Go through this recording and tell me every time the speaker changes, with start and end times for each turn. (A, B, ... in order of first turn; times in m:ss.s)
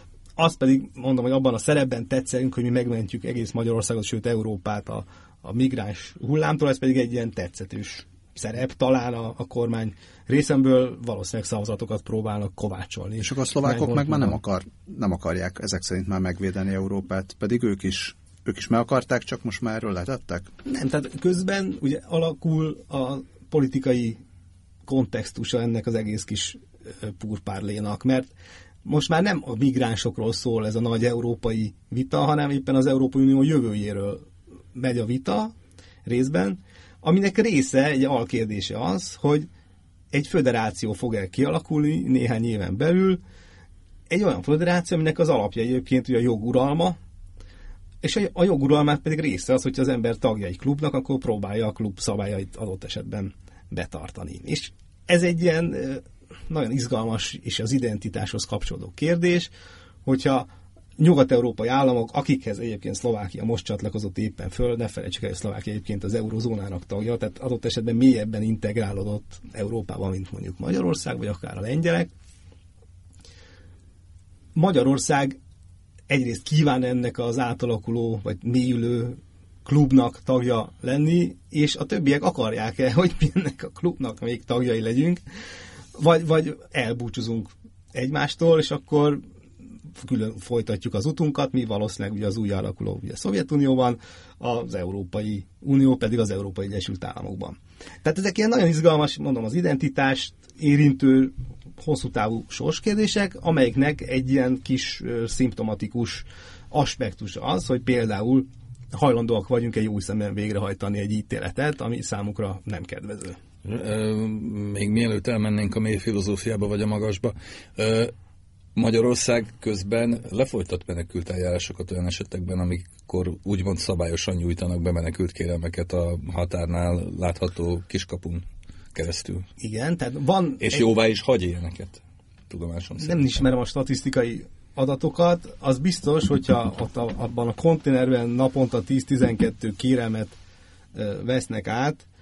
0:00.4-0:14.4 A
0:13.2-0:20.5 B
0:20.7-0:24.2 A
0:24.9-0:28.3 A
0:28.8-0:35.5 A
0:36.0-0:39.5 A
0:40.1-0:43.2 A
0:44.1-0:47.0 A
0:48.0-0:59.5 A
1:00.0-1:00.5 A
1:01.0-1:12.1 A
1:14.6-1:15.4 A
1:16.1-1:25.2 A
1:26.0-1:29.2 A
1:30.0-1:53.4 A
1:53.6-1:58.1 C
1:58.8-2:09.5 C
2:09.6-2:10.9 A
2:10.6-2:13.4 C
2:13.0-2:20.3 A
2:21.0-2:22.0 A